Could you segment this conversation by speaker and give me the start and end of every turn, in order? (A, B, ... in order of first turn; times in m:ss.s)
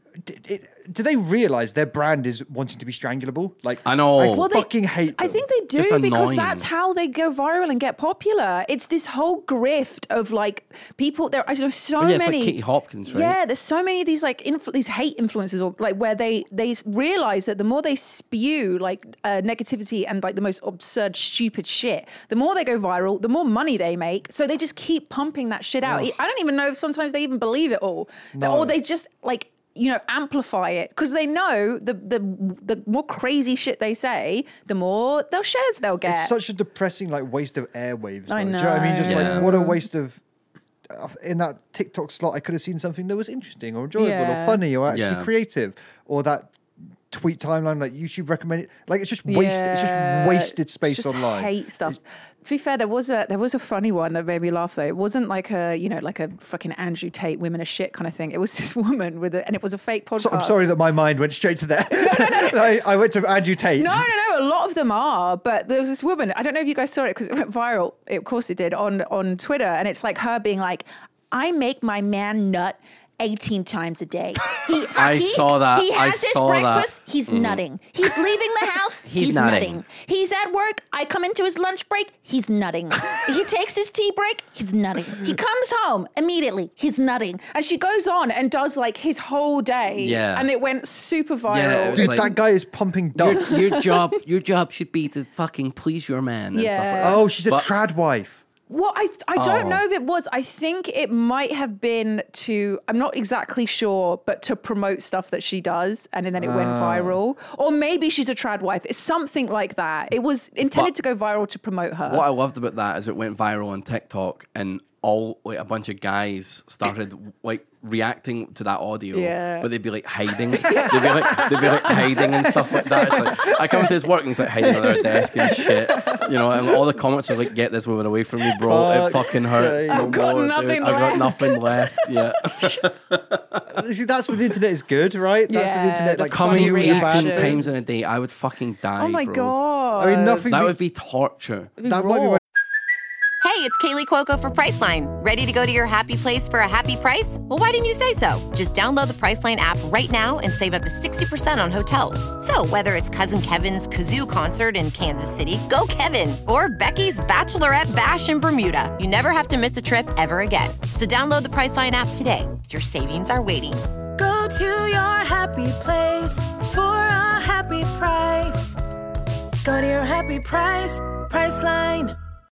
0:00.2-0:05.4 A
0:03.8-0:04.4 B
0:04.2-0:12.6 C
0:05.7-0:06.7 B
0:12.0-0:13.4 B
0:13.1-0:36.3 C
0:25.8-0:26.2 A
0:28.3-0:28.8 A
0:36.0-0:40.2 A
0:38.3-0:39.8 C
0:39.0-0:39.4 B
0:40.9-0:46.6 A
0:44.0-0:44.6 C
0:44.9-0:45.3 B
0:47.1-0:52.0 A
0:49.2-1:00.7 C
1:00.2-1:04.1 A
1:01.9-1:02.8 C
1:03.8-1:32.4 C
1:14.9-1:17.6 B
1:19.0-1:19.8 B
1:30.0-1:30.5 B
1:31.5-1:32.3 B
1:32.0-1:33.6 A
1:33.2-1:37.7 B
1:33.4-1:34.0 C
1:36.5-1:37.2 C
1:37.0-1:38.4 A
1:38.7-1:52.3 C
1:39.4-1:39.8 B
1:46.4-1:47.2 A
1:50.7-1:50.9 B
1:52.1-2:13.7 B
1:59.1-1:59.7 C
2:00.6-2:02.2 C
2:01.3-2:03.8 A
2:04.6-2:06.8 A
2:08.5-2:10.2 A
2:09.9-2:12.8 C
2:13.7-2:17.6 A
2:15.5-2:17.6 C
2:16.3-2:19.6 B
2:19.0-2:20.5 C
2:20.0-2:20.8 A
2:20.5-2:21.7 B
2:21.8-2:22.4 C
2:21.8-2:22.4 A
2:23.4-2:43.8 D
2:44.2-2:48.8 E
2:49.6-2:52.2 E